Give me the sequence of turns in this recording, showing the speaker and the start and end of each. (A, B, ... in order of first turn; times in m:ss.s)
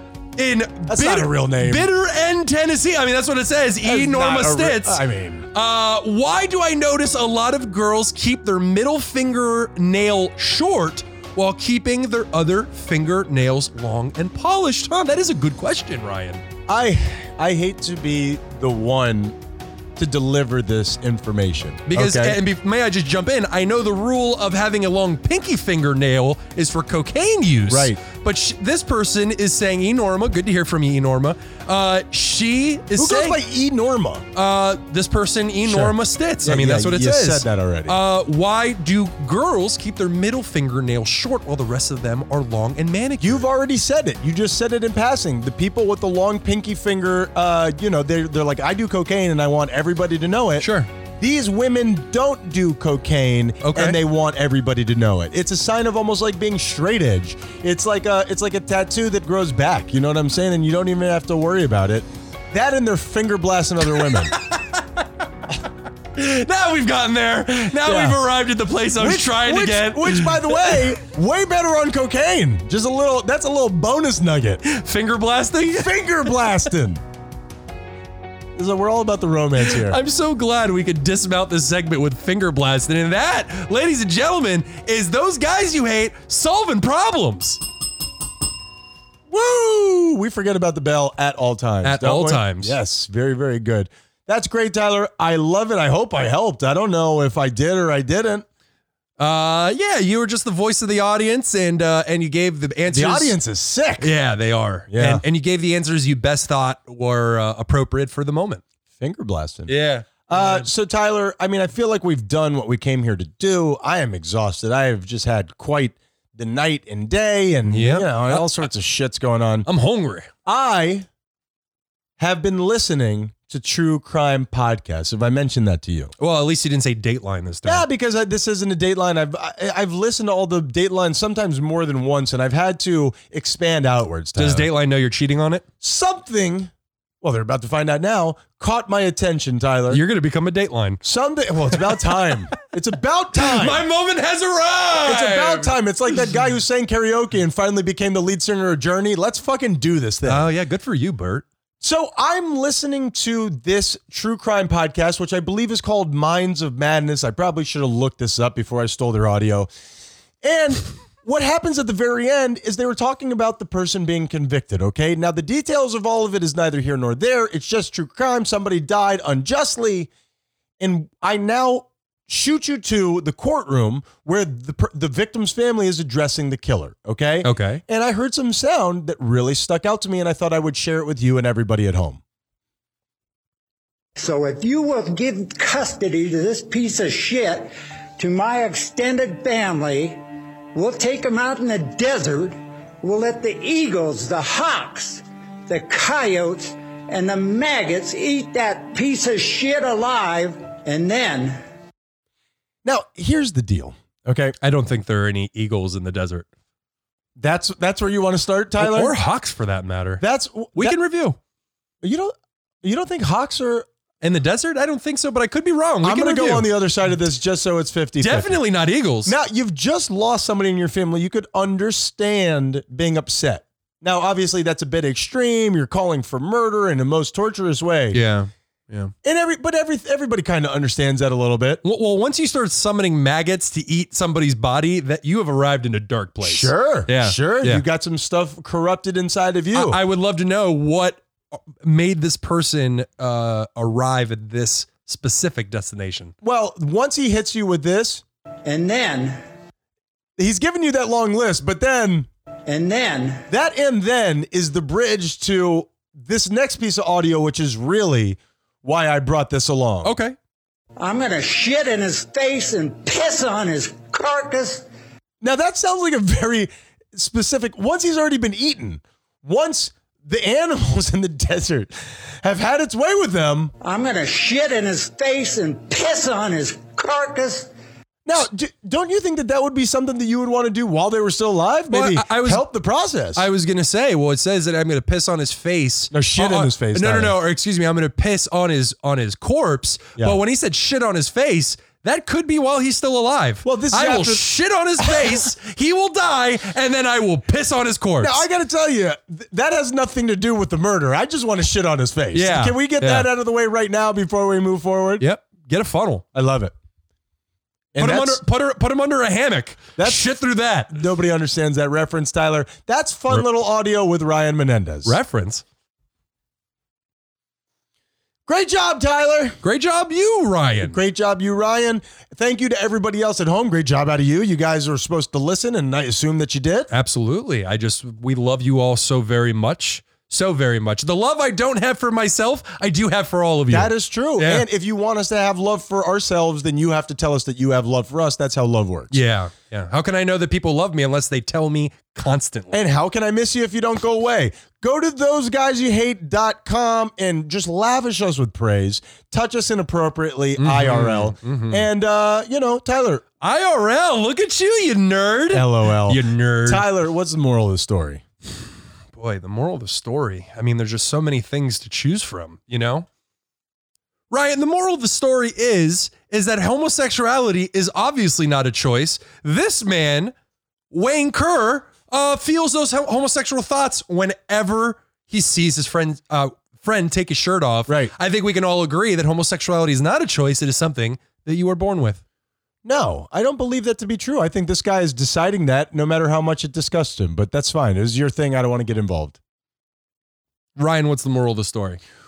0:00.4-0:05.0 A
0:00.9-0:01.9 B
0:03.8-0:05.5 B
0:05.5-0:16.4 A
0:16.7-0:19.4 B
0:20.0-0:22.4 B
0:21.9-0:33.4 A
0:27.7-0:28.0 B
0:33.0-0:34.3 B
0:34.4-0:43.5 A
0:35.6-0:38.0 B
0:43.2-0:50.7 B
0:50.6-0:50.9 A
0:51.2-1:04.3 B
0:53.6-0:54.0 A
1:03.9-1:05.0 A
1:06.1-1:11.0 A
1:07.8-1:08.2 B
1:09.0-1:14.6 B
1:14.6-1:16.3 A
1:15.7-1:17.0 B
1:18.6-1:20.0 B
1:19.6-1:27.6 A
1:29.3-1:38.4 B
1:31.8-1:32.8 A
1:39.2-1:43.4 A
1:42.9-1:44.1 B
1:44.0-1:48.6 A
1:44.9-1:45.2 B
1:49.0-1:49.7 B
1:49.7-1:50.7 A
1:50.3-1:59.7 B
1:57.7-1:58.7 A
1:59.7-2:00.3 A
2:00.5-2:01.1 B
2:02.2-2:06.1 B
2:06.2-2:07.9 A
2:07.6-2:14.7 B
2:14.4-2:15.6 A
2:15.8-2:16.7 B
2:17.2-2:20.0 B
2:19.9-2:21.0 A
2:21.0-2:23.8 B
2:21.7-2:22.3 A
2:23.4-2:25.8 A
2:25.0-2:30.5 B
2:30.2-2:31.4 A
2:31.8-2:39.7 B
2:40.4-2:50.1 B
2:50.8-3:02.2 B
2:57.4-2:57.8 A
3:04.2-3:21.6 C
3:22.8-3:24.6 B
3:24.6-3:26.5 A
3:27.4-3:29.1 B
3:28.8-3:30.2 A
3:30.2-3:31.0 B
3:30.8-3:31.4 A
3:32.0-3:33.9 B
3:34.2-3:36.7 A
3:36.0-3:38.6 B
3:38.2-3:39.4 A
3:39.3-3:48.2 B
3:48.1-3:49.1 A
3:49.2-3:51.8 B
3:51.8-3:57.8 A
3:56.4-4:00.0 B
3:59.7-4:06.3 A
4:06.4-4:08.2 B
4:08.6-4:09.4 C
4:10.4-4:12.3 B
4:12.7-4:13.4 C
4:13.5-4:20.1 B
4:20.0-4:20.4 A
4:21.0-4:24.9 C
4:25.4-4:31.9 B
4:32.4-4:33.7 B
4:33.8-4:37.7 C
4:38.3-4:43.4 B
4:41.9-4:42.7 A
4:43.4-4:58.4 A
4:46.1-4:47.3 B
4:53.6-4:54.4 B
4:55.0-4:55.4 B
4:58.2-5:05.3 B
5:02.3-5:03.3 A
5:05.2-5:06.2 A
5:06.3-5:06.7 B
5:08.0-5:08.4 B
5:08.0-5:11.0 A
5:10.0-5:10.3 B
5:10.9-5:15.2 B
5:15.0-5:15.6 A
5:18.5-5:19.6 B
5:19.6-5:21.0 A
5:20.8-5:26.9 B
5:26.9-5:34.7 A
5:33.7-5:39.2 B
5:39.1-5:42.8 A
5:42.7-5:53.2 B
5:50.6-5:51.8 A
5:53.4-5:56.8 A
5:55.5-5:58.2 B
5:59.1-6:03.1 A
6:04.3-6:10.3 A
6:10.9-6:22.2 A
6:22.8-6:29.4 B
6:30.8-6:32.0 A